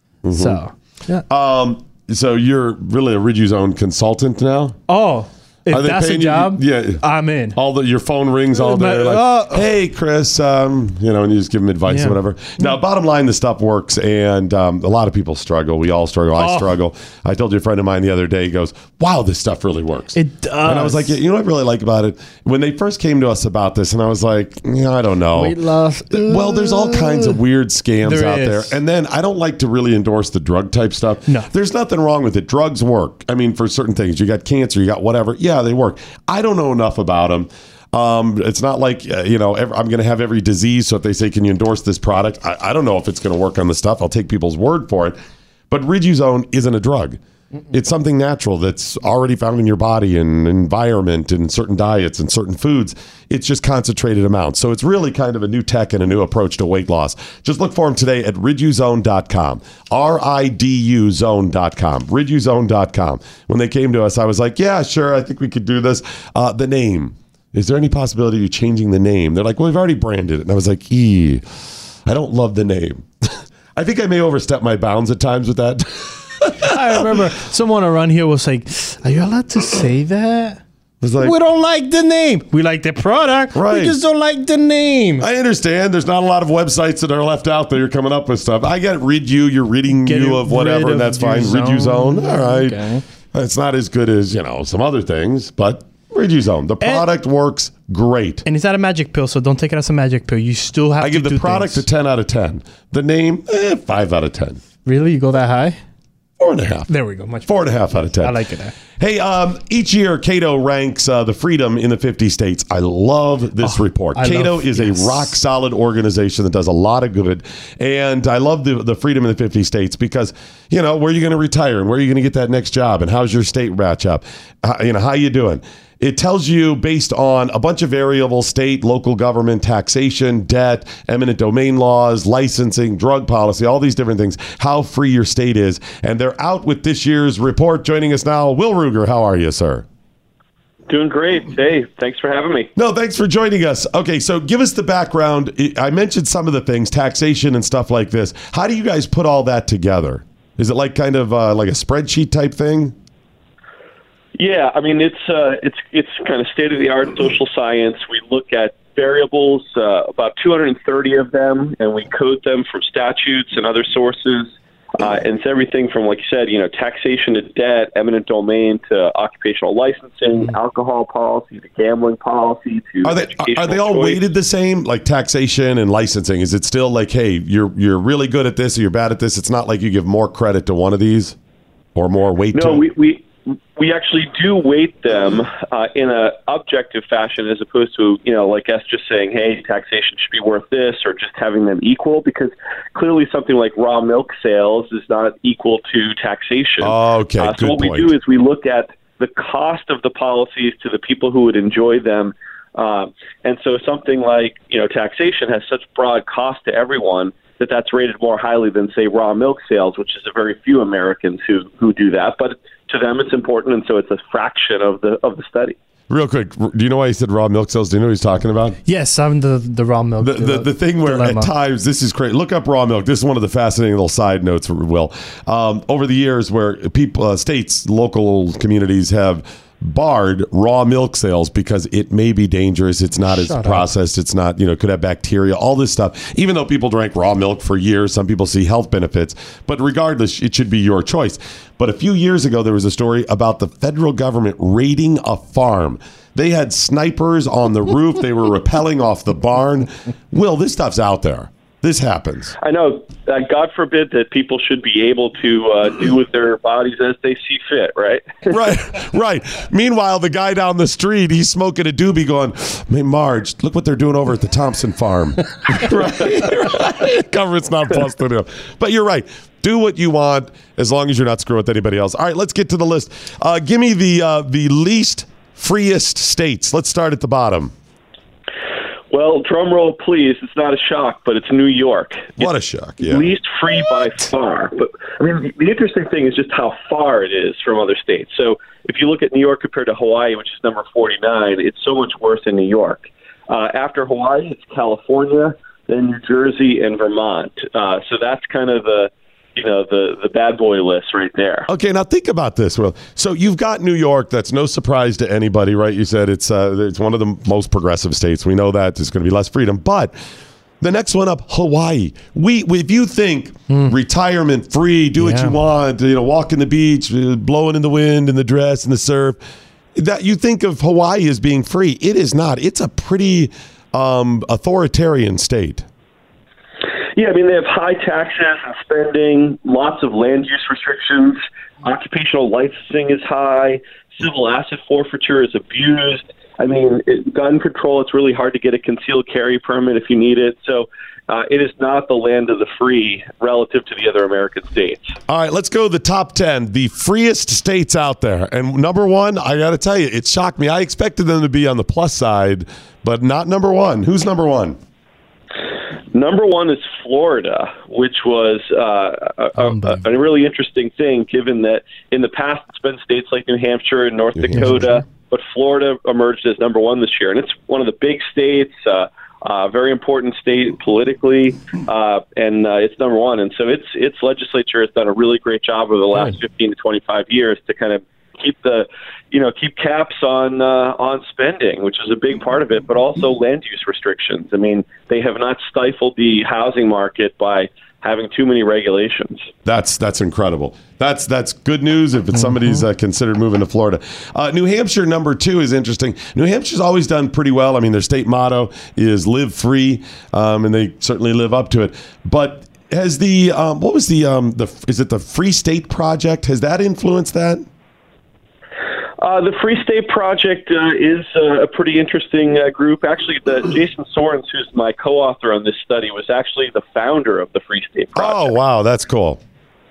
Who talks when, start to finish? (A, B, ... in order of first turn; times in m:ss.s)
0:00.2-0:00.6 A
0:00.4-0:01.2 B
0:01.3-0:04.8 A
0:04.9-0:07.6 B
0:05.7-0:07.0 A
0:07.5-0:25.6 A
0:08.5-0:09.7 B
0:11.9-0:12.8 B
0:16.4-0:16.7 B
0:20.2-0:21.2 B
0:25.3-0:27.4 B
0:26.1-0:45.2 A
0:28.0-0:28.8 B
0:45.7-0:47.2 A
0:47.7-1:11.4 A
1:12.1-1:17.1 A
1:16.6-1:20.6 B
1:21.0-1:21.4 A
1:21.2-1:25.3 B
1:23.5-1:24.0 A
1:25.2-1:38.4 A
1:29.9-1:33.0 B
1:36.8-1:37.1 B
1:38.4-1:41.8 B
1:41.0-1:44.6 A
1:44.9-1:45.8 B
1:46.4-1:46.9 A
1:46.9-1:48.8 B
1:47.5-1:48.4 A
1:49.0-2:19.9 A
1:53.6-1:55.3 B
2:20.9-2:22.7 C
2:22.8-2:33.0 A
2:34.4-2:54.2 C
2:53.0-3:01.4 A
3:02.0-3:02.9 A
3:02.5-3:35.8 C
3:16.8-3:18.2 A
3:36.1-3:38.8 A
3:38.9-3:41.5 B
3:40.2-4:12.6 A
3:53.3-3:53.9 B
4:12.6-4:18.5 C
4:18.5-4:37.7 A
4:39.1-4:42.4 C
4:42.4-4:43.3 A
4:43.0-5:01.7 C
5:01.7-5:10.1 A
5:10.8-5:19.4 A
5:13.7-5:14.0 B
5:15.2-5:15.6 B
5:20.0-5:25.9 A
5:27.2-5:45.1 C
5:45.3-5:54.8 A
5:56.1-6:29.5 C
5:59.6-6:00.1 B
6:04.4-6:04.9 A
6:04.5-6:05.0 B
6:29.6-6:47.7 A
6:32.3-6:32.8 B
6:49.2-6:58.6 C
6:58.2-6:59.4 A